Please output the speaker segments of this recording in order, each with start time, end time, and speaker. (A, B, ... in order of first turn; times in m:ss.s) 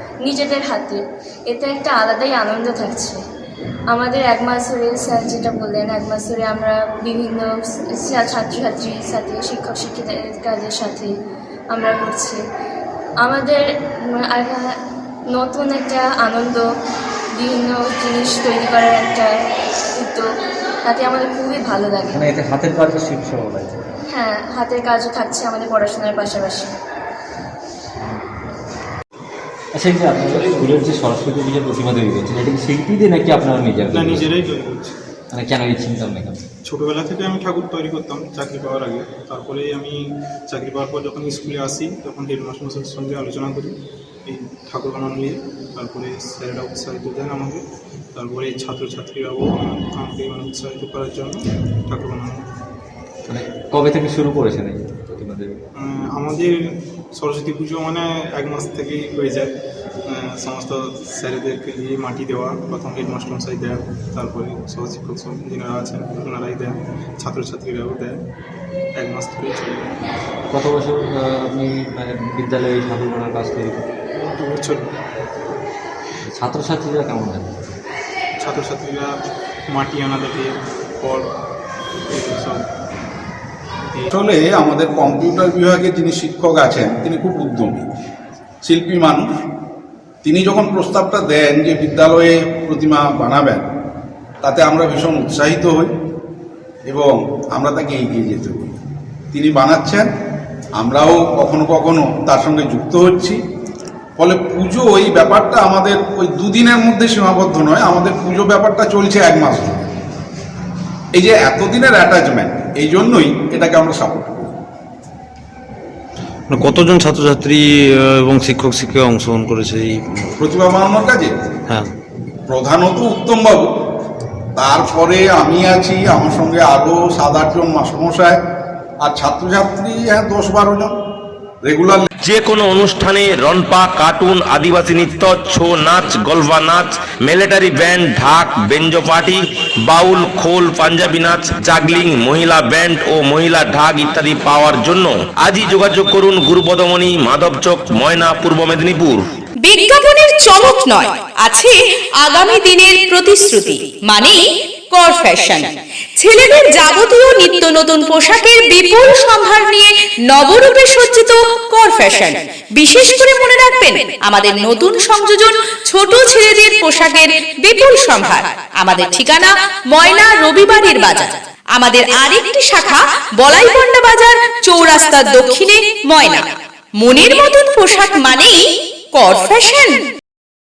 0:00.2-0:01.0 A
0:01.5-0:03.2 A
0:03.9-0:11.1 A
0:11.7-0:12.4 A
0:13.2-0:14.8 A
0:15.3-0:16.6 A
0:17.4-0:19.3 A
0:20.0-0:20.3 A
0:20.9-0:22.2 A
0:22.1-0:23.9 B
0:24.1-0:26.7 A
0:28.0-0:28.5 B
0:29.7-0:34.3 B
0:30.4-0:30.7 C
0:33.9-0:35.0 C
0:35.3-0:36.4 B
0:36.6-0:52.5 C
0:53.3-0:55.6 B
0:55.8-0:59.5 C
1:00.1-1:08.2 C
1:09.0-1:09.9 C
1:10.5-1:13.9 B
1:14.2-1:14.9 C
1:16.2-1:17.8 B
1:18.4-1:21.3 C
1:22.1-1:22.6 C
1:24.1-1:27.9 D
1:28.6-1:29.3 D
1:30.2-1:33.7 D
1:34.4-1:35.9 D
1:36.9-1:38.7 D
1:39.3-1:40.1 D
1:40.8-1:43.4 D
1:44.2-1:49.8 D
1:51.2-1:54.5 D
1:56.5-2:00.3 E
2:00.4-2:01.3 D
2:02.5-2:03.7 D
2:04.6-2:08.4 D
2:09.0-2:10.9 D
2:11.6-2:12.1 D
2:12.2-2:29.2 F
2:29.6-2:56.5 G
2:57.0-2:58.6 G
2:59.1-3:00.0 G